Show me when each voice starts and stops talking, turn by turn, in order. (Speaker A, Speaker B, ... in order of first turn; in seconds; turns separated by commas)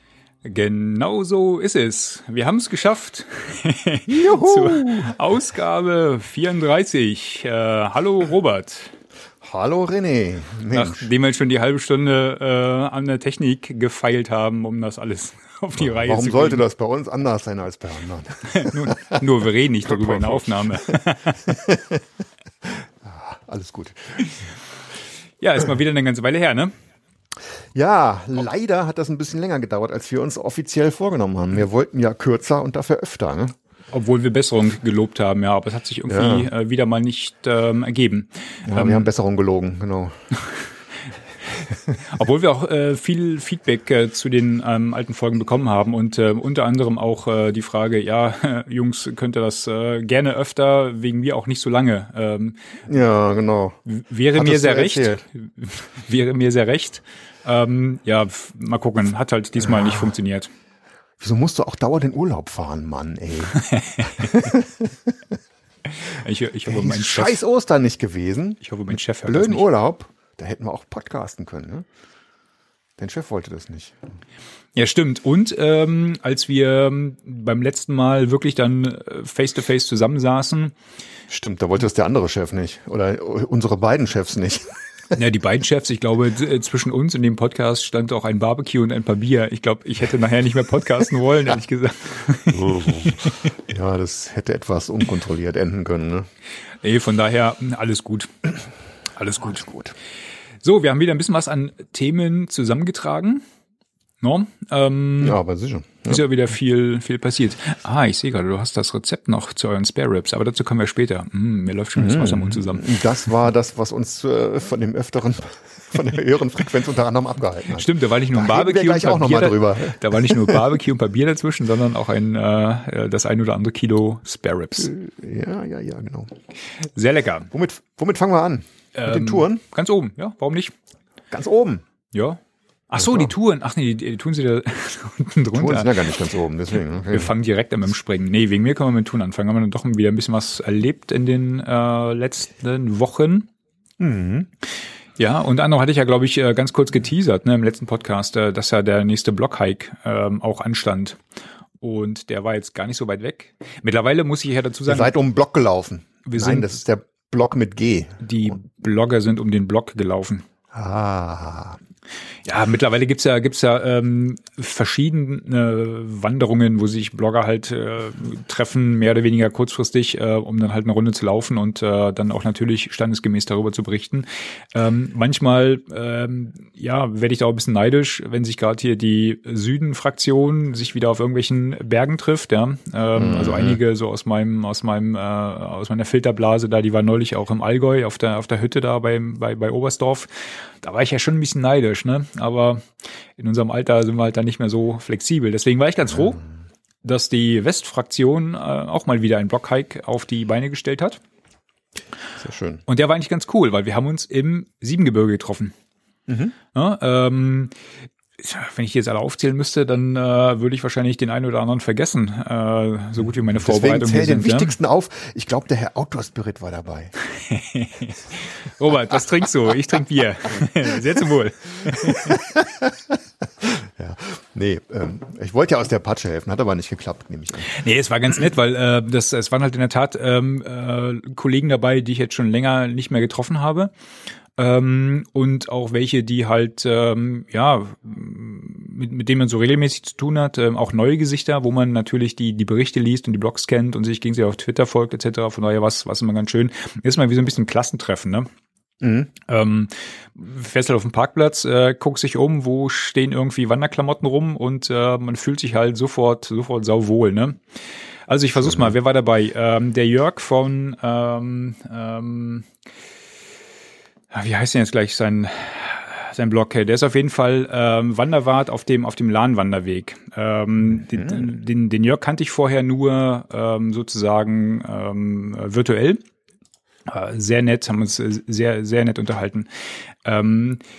Speaker A: 0.4-8.9, Speaker B: 4.1-5.1, Speaker B: 9.4-11.1, Speaker A: 10.7-16.6, Speaker B: 15.8-19.2, Speaker A: 18.4-21.6, Speaker B: 19.8-22.0, Speaker B: 22.6-24.4, Speaker A: 25.4-26.7, Speaker B: 27.7-33.5, Speaker A: 33.9-39.1, Speaker B: 36.1-36.5, Speaker B: 38.7-40.2, Speaker A: 42.0-52.6, Speaker B: 52.9-53.8, Speaker A: 53.9-60.5, Speaker B: 54.3-55.2, Speaker B: 59.6-60.1, Speaker B: 61.2-65.3, Speaker A: 63.5-64.4, Speaker A: 65.9-67.4, Speaker B: 66.7-71.8, Speaker A: 68.6-69.7, Speaker B: 73.0-74.0, Speaker A: 74.7-80.7, Speaker B: 81.3-85.1, Speaker A: 85.1-93.5, Speaker B: 92.5-96.3, Speaker A: 96.8-98.5, Speaker A: 99.2-99.7, Speaker B: 99.4-99.9, Speaker A: 100.6-103.4, Speaker A: 104.2-105.4, Speaker B: 105.2-106.2, Speaker A: 106.1-113.0, Speaker B: 112.0-120.7, Speaker A: 117.7-124.9, Speaker B: 124.8-126.3, Speaker A: 126.9-127.5, Speaker B: 127.5-129.6, Speaker A: 128.9-130.7, Speaker B: 131.3-131.8, Speaker A: 132.1-136.1, Speaker B: 133.0-133.3, Speaker B: 135.5-137.3, Speaker A: 137.1-143.5, Speaker B: 144.0-144.5, Speaker A: 145.2-151.2, Speaker A: 151.8-155.1, Speaker B: 154.8-158.5, Speaker A: 156.2-156.8, Speaker A: 158.2-160.4, Speaker B: 160.7-161.8, Speaker A: 162.4-196.4, Speaker B: 183.1-183.8, Speaker A: 197.0-201.2, Speaker B: 202.4-202.8, Speaker A: 202.9-205.7, Speaker B: 206.3-206.5, Speaker A: 206.7-207.7, Speaker A: 208.4-214.7, Speaker B: 213.5-217.1, Speaker A: 217.3-222.4, Speaker B: 221.8-227.7, Speaker A: 227.6-233.9, Speaker A: 234.6-248.5, Speaker B: 249.0-249.3, Speaker A: 249.5-257.6, Speaker A: 258.3-262.7, Speaker B: 258.6-258.9, Speaker A: 264.3-276.2, Speaker B: 271.0-271.5, Speaker A: 277.1-279.7, Speaker A: 280.2-280.8